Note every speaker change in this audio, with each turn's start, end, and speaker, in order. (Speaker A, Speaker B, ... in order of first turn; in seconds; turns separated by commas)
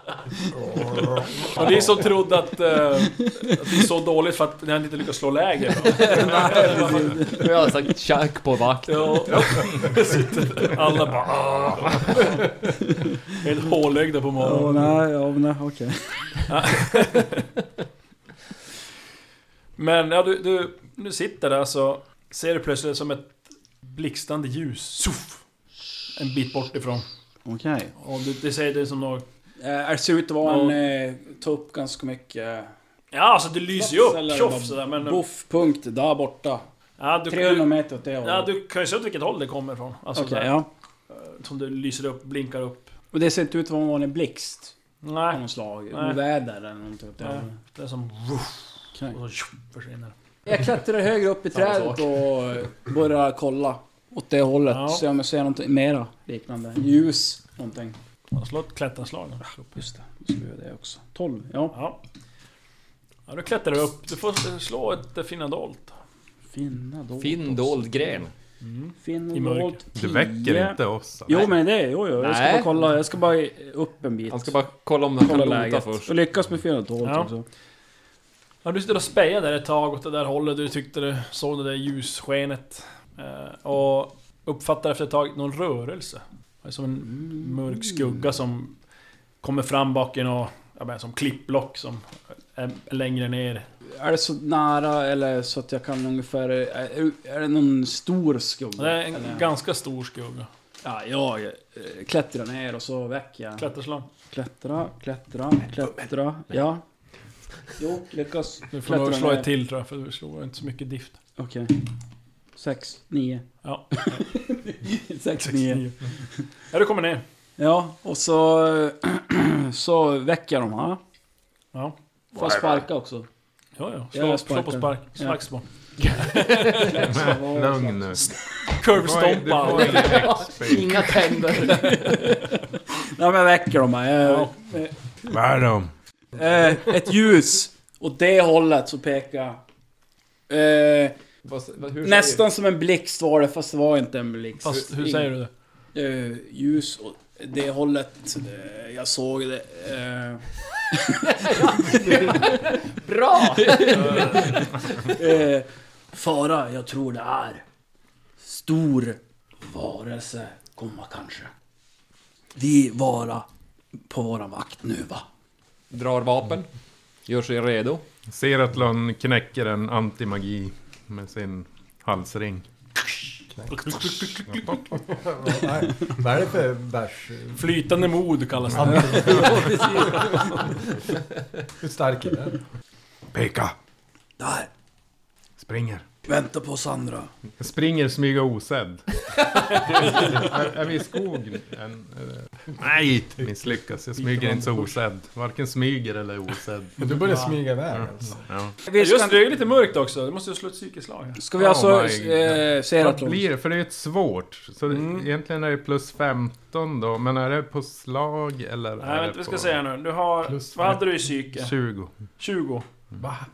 Speaker A: 0.7-1.5, Speaker B: 1.4-1.7, Speaker C: 1.5-7.1, Speaker B: 5.9-7.7, Speaker D: 7.3-9.5, Speaker C: 8.9-12.5, Speaker E: 10.0-10.7, Speaker C: 13.3-14.9, Speaker B: 14.4-16.4, Speaker C: 16.5-17.4, Speaker C: 19.8-25.4, Speaker C: 26.1-27.1, Speaker B: 27.4-27.9, Speaker C: 28.0-29.2, Speaker B: 29.6-32.7, Speaker C: 30.4-30.8, Speaker C: 33.1-35.2, Speaker B: 33.7-36.6, Speaker C: 37.0-37.7, Speaker B: 37.3-38.5, Speaker C: 38.2-40.5, Speaker B: 40.1-40.7, Speaker C: 41.1-42.9, Speaker B: 43.1-44.7, Speaker C: 45.0-46.2, Speaker B: 45.3-47.6, Speaker C: 47.2-50.1, Speaker B: 50.5-58.0, Speaker D: 51.5-52.1, Speaker C: 54.7-55.0, Speaker C: 58.3-59.5, Speaker B: 59.7-61.8, Speaker C: 61.7-62.0, Speaker C: 63.3-66.0, Speaker B: 66.5-68.2, Speaker D: 67.2-68.3, Speaker C: 68.6-69.8, Speaker B: 69.0-70.8, Speaker A: 69.9-71.5, Speaker B: 71.3-74.6, Speaker D: 72.2-72.7, Speaker D: 74.3-76.1, Speaker B: 75.2-77.4, Speaker C: 77.0-77.3, Speaker C: 78.6-88.8, Speaker B: 87.1-88.0, Speaker C: 89.4-93.7, Speaker B: 93.9-99.5, Speaker C: 98.8-100.5, Speaker B: 100.8-103.7, Speaker C: 103.6-104.1, Speaker B: 104.3-106.8, Speaker B: 107.8-109.5, Speaker C: 108.7-111.2, Speaker B: 111.4-111.9, Speaker B: 112.5-115.8, Speaker C: 113.6-114.2, Speaker C: 115.4-116.0, Speaker C: 116.7-117.2, Speaker B: 117.6-121.0, Speaker B: 122.3-123.3, Speaker D: 122.4-122.8, Speaker C: 123.8-125.6, Speaker B: 124.1-125.4, Speaker D: 126.0-127.1, Speaker B: 126.7-128.3, Speaker A: 126.9-128.3, Speaker C: 128.7-130.2, Speaker A: 128.8-131.1, Speaker D: 129.8-132.5, Speaker B: 130.7-135.3, Speaker C: 134.2-134.5, Speaker A: 135.2-135.9, Speaker B: 136.3-139.6, Speaker B: 140.5-141.1, Speaker D: 141.4-142.4, Speaker B: 142.0-145.3, Speaker C: 144.6-145.5, Speaker B: 145.9-152.6, Speaker D: 151.2-155.2, Speaker B: 153.3-157.6, Speaker C: 153.9-154.6, Speaker B: 158.4-161.5, Speaker B: 162.6-163.4, Speaker B: 164.1-165.2, Speaker D: 165.9-166.7, Speaker D: 167.2-168.0, Speaker A: 168.3-172.7, Speaker E: 173.5-174.1, Speaker C: 173.8-174.8, Speaker A: 174.5-174.8, Speaker E: 174.9-177.8, Speaker C: 177.6-179.7, Speaker E: 178.7-180.7, Speaker B: 179.1-180.7, Speaker E: 181.8-182.6, Speaker A: 183.3-183.7, Speaker B: 184.4-184.7, Speaker A: 185.6-186.0, Speaker B: 186.2-187.3, Speaker A: 187.6-189.0, Speaker A: 189.7-197.1, Speaker C: 194.2-195.0, Speaker E: 197.0-198.5, Speaker C: 197.3-197.5, Speaker A: 198.0-198.7, Speaker B: 198.8-199.4, Speaker C: 198.9-201.4, Speaker B: 201.4-203.5, Speaker A: 201.6-209.8, Speaker C: 204.9-205.3, Speaker C: 209.0-211.8, Speaker A: 210.5-212.1, Speaker C: 212.4-212.8